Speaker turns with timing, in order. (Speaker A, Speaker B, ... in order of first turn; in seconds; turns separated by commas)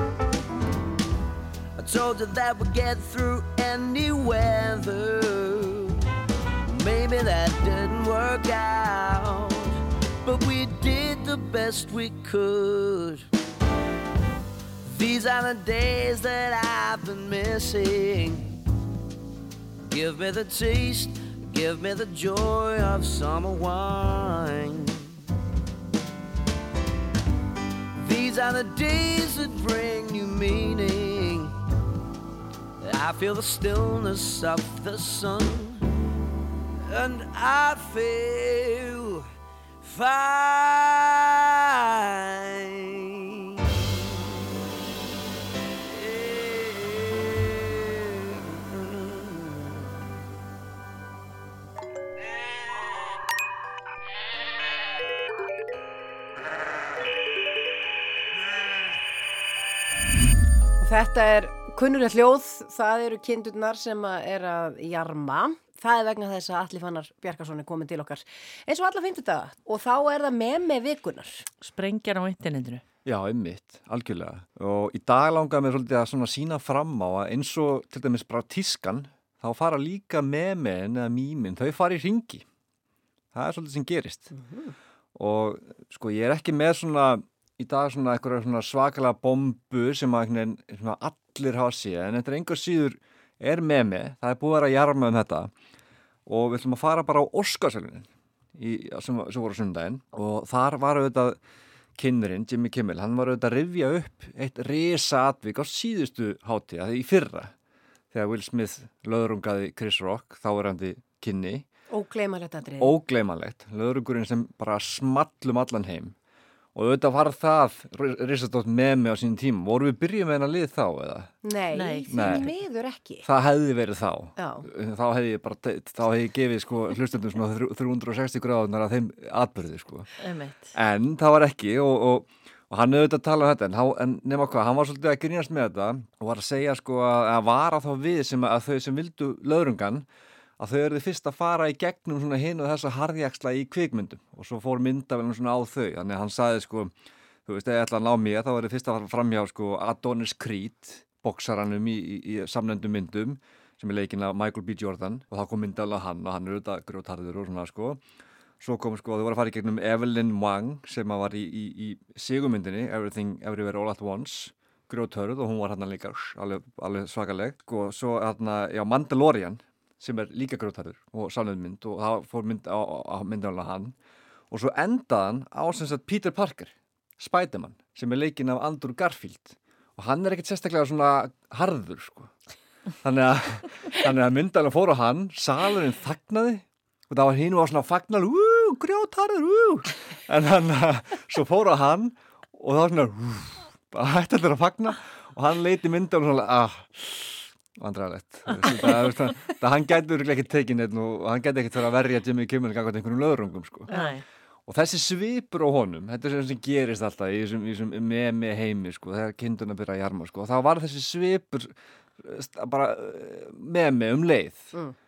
Speaker A: 1.7-6.0, Speaker A: 6.7-13.3, Speaker A: 14.8-18.5, Speaker A: 19.9-25.0, Speaker A: 27.9-31.5, Speaker A: 32.8-35.8, Speaker A: 36.9-39.2, Speaker A: 39.8-43.0, Speaker A: 43.7-44.0, Speaker A: 45.9-49.7, Speaker B: 60.8-71.5, Speaker C: 71.6-72.8, Speaker D: 73.0-82.4, Speaker D: 83.3-84.3, Speaker B: 84.3-84.7, Speaker D: 85.1-95.5, Speaker D: 96.3-101.4, Speaker D: 102.0-107.5, Speaker D: 108.1-111.6, Speaker B: 111.9-113.0, Speaker D: 112.8-116.1, Speaker D: 116.7-121.3, Speaker B: 121.4-123.2, Speaker C: 121.7-122.4, Speaker D: 122.1-122.6, Speaker D: 123.2-130.1, Speaker B: 124.3-124.7, Speaker C: 130.2-130.7, Speaker D: 130.8-140.1, Speaker D: 140.6-146.9, Speaker D: 147.4-158.0, Speaker D: 158.6-173.9, Speaker D: 174.5-182.3, Speaker D: 183.0-203.9, Speaker C: 198.5-199.1, Speaker C: 203.9-204.2, Speaker D: 204.7-214.7